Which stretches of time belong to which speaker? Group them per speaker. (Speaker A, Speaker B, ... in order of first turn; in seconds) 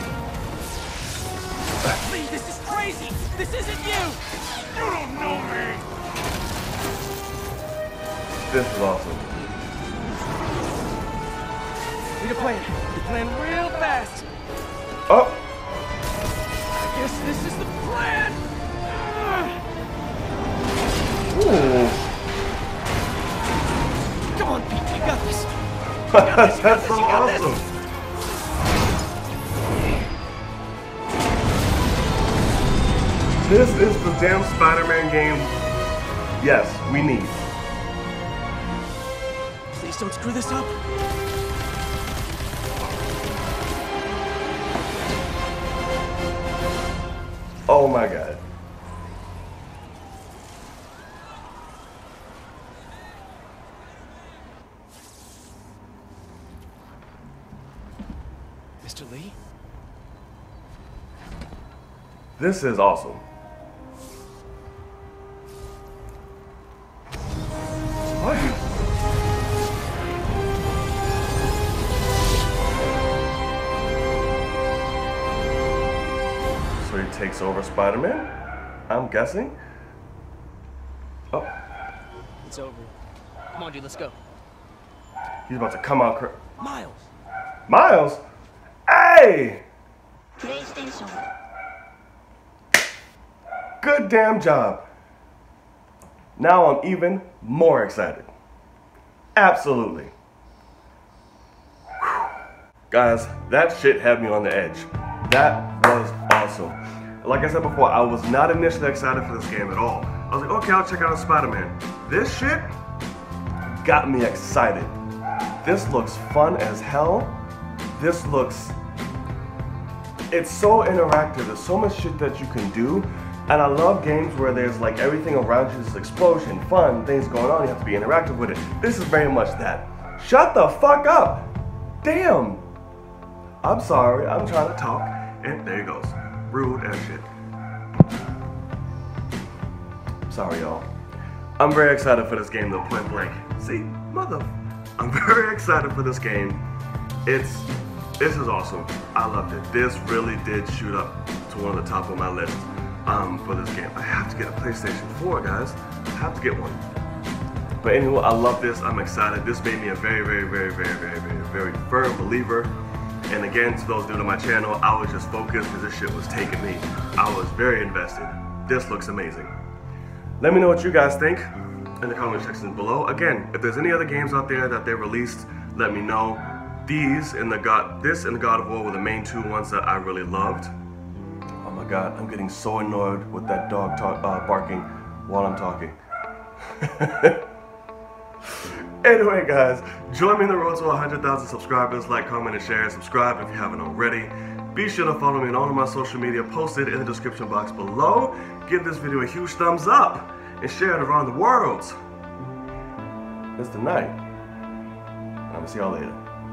Speaker A: 1.9-4.2, 4.7-5.8, 12.2-14.2, 16.7-18.5, 19.1-19.4, 24.3-25.5, 26.1-27.6, 39.7-40.8, 58.8-59.4, 82.4-82.9, 83.5-84.2, 86.6-87.0, 90.5-91.1
Speaker B: 8.5-9.4, 15.1-15.4, 21.3-22.0, 26.1-27.6, 33.4-35.5, 36.4-37.4, 47.7-48.4, 62.4-63.2, 68.2-68.6, 76.8-78.3, 78.9-79.6, 85.5-86.4, 87.7-88.2, 88.9-89.6, 93.8-94.9, 96.3-98.3, 99.3-100.1, 102.0-102.3, 102.9-112.7, 113.7-115.0, 115.6-117.4, 117.9-118.8, 120.3-131.5, 132.0-132.6, 133.6-137.3, 140.3-140.9, 141.6-146.6, 147.2-156.8, 157.8-162.7, 163.3-169.5, 170.4-180.7, 181.6-185.9, 186.7-187.4, 188.6-201.9, 203.6-204.2, 205.5-206.2